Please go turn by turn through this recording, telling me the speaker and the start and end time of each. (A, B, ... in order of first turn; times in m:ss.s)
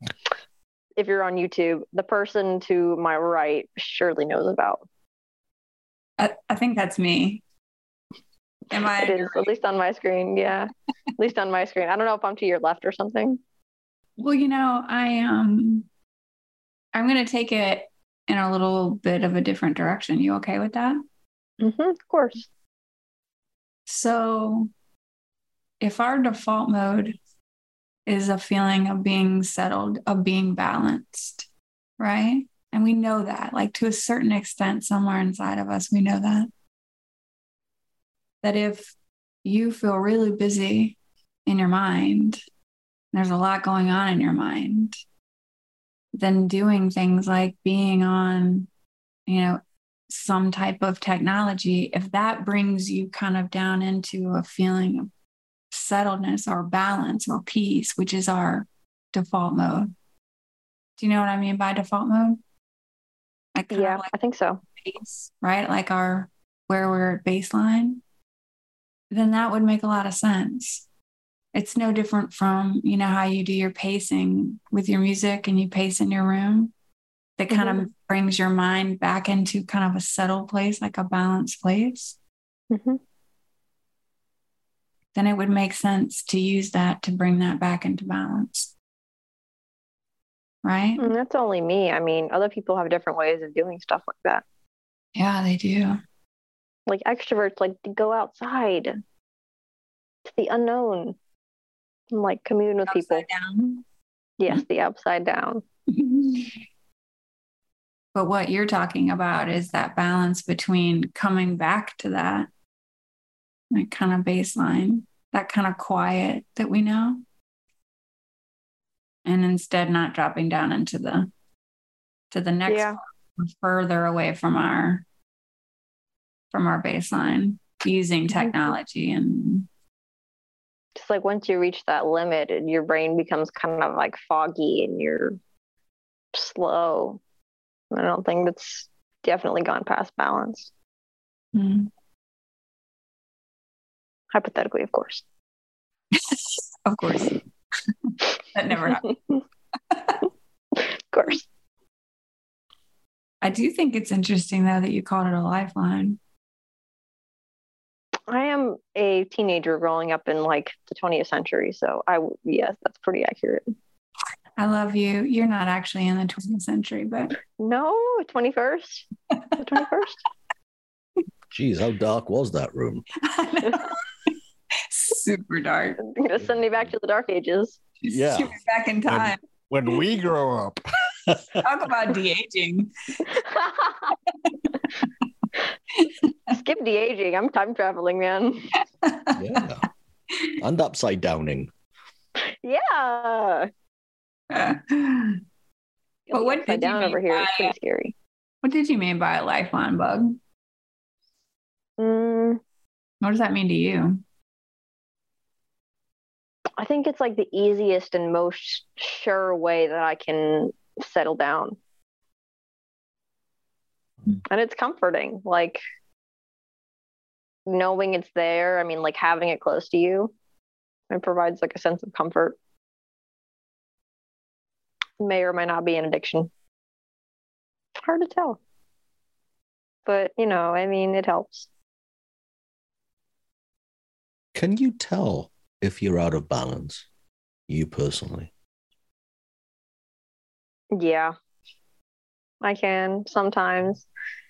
0:01.0-0:04.9 A
0:06.2-0:07.4 B
0:08.7-0:09.5 B
0:08.8-0:13.4 A
0:14.2-0:15.9 B
0:16.9-0:21.0 B
0:21.6-0:22.5 A
0:23.9-0:24.7 B
0:25.8-0:27.2 B
0:28.0-0:31.5 B
0:32.0-0:36.5 B
0:38.4-0:42.4 B
0:43.1-0:45.0 B
0:46.1-0:48.7 B
0:49.3-0:55.1 B
0:55.7-0:59.9 B
1:01.0-1:02.4 B
1:03.6-1:04.1 B
1:03.7-1:04.6 A
1:04.8-1:08.0 B
1:09.1-1:10.8 B
1:11.5-1:16.7 B
1:17.4-1:22.2 B
1:17.5-1:17.8 A
1:22.7-1:23.0 A
1:25.1-1:28.7 B
1:30.6-1:31.0 B
1:31.0-1:34.4 A
1:35.2-1:36.0 B
1:36.9-1:39.0 A
1:40.2-1:41.2 A
1:42.1-1:43.2 A
1:42.9-1:43.8 B
1:44.4-1:45.6 A
1:45.9-1:46.6 B
1:48.1-1:52.5 B
1:53.7-1:57.2 B
1:59.2-2:01.3 B
2:02.3-2:05.0 B
2:02.7-2:03.0 A
2:06.5-2:09.7 B
2:10.9-2:15.4 A
2:16.3-2:17.2 A
2:17.9-2:20.7 A
2:21.5-2:21.9 B
2:24.3-2:25.2 A
2:26.2-2:27.3 B
2:28.0-2:29.1 B
2:28.7-2:29.4 A
2:29.9-2:30.2 B
2:30.8-2:31.4 A
2:33.4-2:36.2 B
2:38.3-2:43.7 A
2:44.6-2:47.4 B
2:47.6-2:49.1 A
2:49.3-2:49.6 B
2:49.6-2:50.2 A
2:51.5-2:53.0 C
2:53.2-2:54.0 B
2:54.9-2:56.0 B
2:56.1-2:57.8 A
2:58.0-2:59.4 B
2:58.1-2:58.5 C
2:59.1-3:01.6 C
3:01.6-3:03.3 B
3:03.3-3:04.2 A
3:04.4-3:04.9 B
3:06.0-3:06.5 B
3:06.5-3:08.7 A
3:09.0-3:09.6 B
3:09.3-3:09.9 C
3:10.6-3:11.7 C
3:12.4-3:13.7 A
3:14.5-3:15.4 B
3:16.3-3:18.1 A
3:16.3-3:17.8 B
3:18.6-3:20.4 B
3:22.0-3:22.6 A
3:23.2-3:24.2 B
3:26.8-3:31.8 A
3:34.4-3:35.8 A
3:37.6-3:40.3 A
3:41.1-3:42.6 A
3:45.2-3:46.5 A
3:48.0-3:48.6 A
3:50.0-3:51.7 A
3:54.5-3:57.1 C
3:57.7-3:58.5 C
4:00.9-4:01.3 A
4:02.6-4:04.1 A